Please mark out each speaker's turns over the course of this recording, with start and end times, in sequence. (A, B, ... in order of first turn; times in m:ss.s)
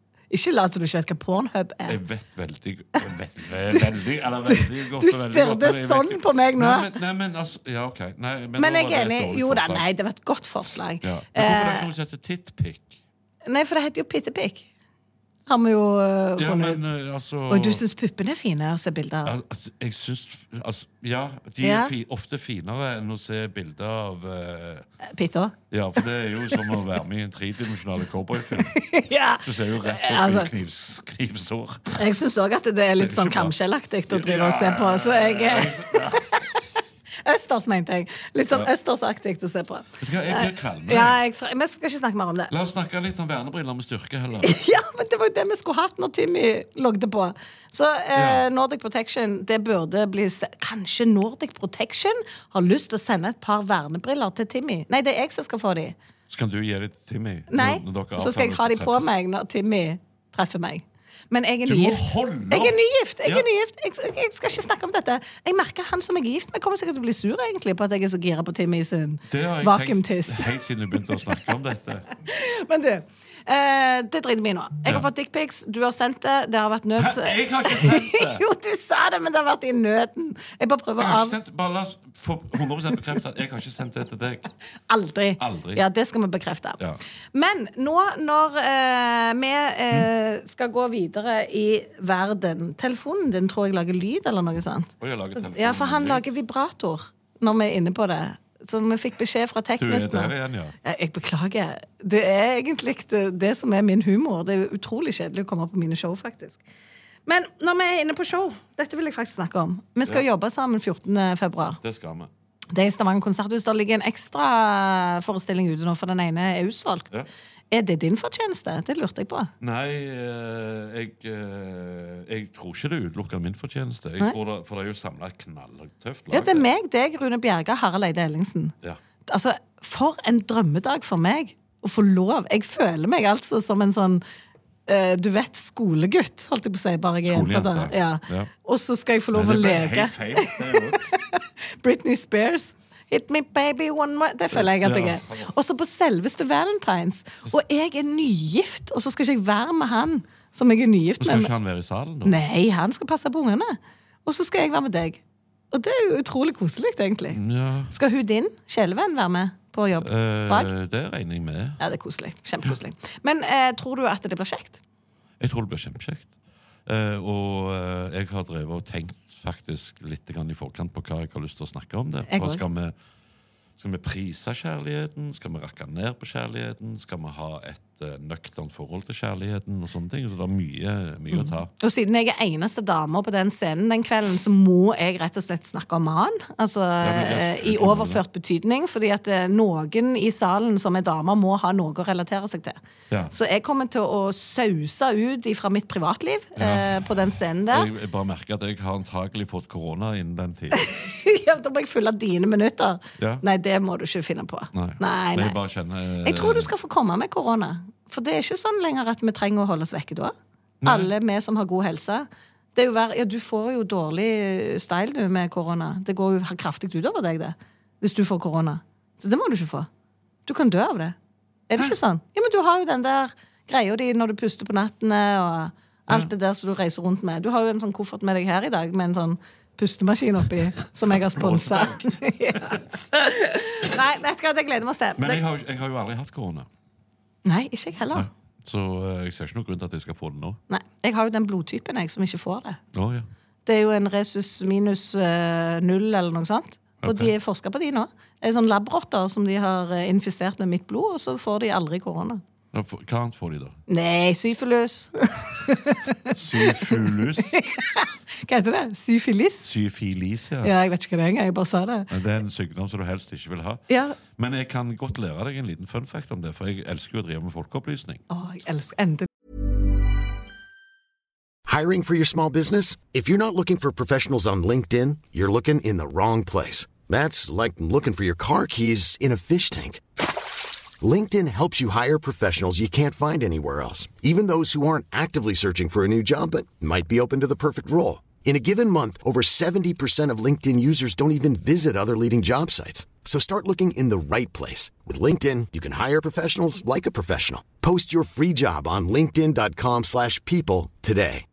0:00.3-0:02.0 A
0:01.9-0:09.8 B
0:04.5-0:06.9 A
0:08.6-0:11.9 A
0:11.0-0:13.0 B
0:13.5-0:14.7 A
0:15.5-0:16.8 A
0:16.4-0:17.8 B
0:17.5-0:19.3 A
0:19.2-0:24.9 B
0:21.6-0:21.9 A
0:25.0-0:25.6 A
0:25.7-0:28.8 B
0:28.6-0:30.5 A
0:29.4-0:32.0 B
0:32.0-0:36.6 A
0:33.0-0:33.5 B
0:34.1-0:36.4 B
0:37.2-0:42.5 A
0:40.0-0:41.2 B
0:42.5-0:44.6 B
0:44.4-0:56.0 A
0:48.1-0:48.4 B
0:56.3-0:59.1 B
0:57.5-1:10.5 A
1:01.7-1:03.5 B
1:09.3-1:12.1 B
1:11.1-1:11.5 A
1:12.2-1:21.4 A
1:17.0-1:18.4 B
1:21.0-1:24.5 B
1:24.9-1:26.8 A
1:25.4-1:25.8 B
1:27.3-1:40.3 A
1:35.0-1:36.2 B
1:39.8-1:40.8 B
1:40.8-1:46.6 A
1:47.3-1:51.8 A
1:51.8-1:52.3 B
1:52.7-1:57.1 A
1:57.7-1:59.5 A
1:59.6-2:06.7 B
2:06.3-2:08.7 A
2:09.3-2:14.2 A
2:14.9-2:31.5 A
2:17.2-2:18.5 B
2:19.3-2:21.0 B
2:24.5-2:25.5 B
2:31.2-2:32.4 B
2:32.2-2:35.2 A
2:35.7-2:37.4 A
2:37.3-2:37.9 B
2:37.9-2:40.7 A
2:40.0-2:41.8 B
2:41.8-2:44.8 A
2:45.4-2:46.3 B
2:46.9-2:52.9 B
2:52.3-2:52.6 A
2:53.8-3:01.7 B
3:01.3-3:12.8 A
3:07.0-3:08.2 B
3:13.3-3:17.9 A
3:16.6-3:17.2 B
3:17.7-3:20.9 B
3:20.7-3:25.6 A
3:23.2-3:23.4 B
3:24.7-3:26.7 B
3:26.2-3:30.3 A
3:30.8-3:31.1 B
3:30.8-3:39.9 A
3:40.5-3:41.2 A
3:41.7-3:55.4 A
3:51.1-3:52.8 B
3:55.2-3:56.7 B
3:57.4-3:58.3 A
3:58.1-4:00.6 B
4:00.7-4:02.8 A
4:02.9-4:03.3 B
4:03.7-4:12.4 A
4:07.0-4:07.3 B
4:12.7-4:13.8 B
4:13.9-4:19.7 A
4:16.3-4:17.5 B
4:19.6-4:20.7 B
4:20.6-4:22.1 A
4:22.1-4:28.2 B
4:23.9-4:24.2 A
4:28.3-4:29.3 A
4:31.7-4:40.0 C
4:41.0-5:01.4 C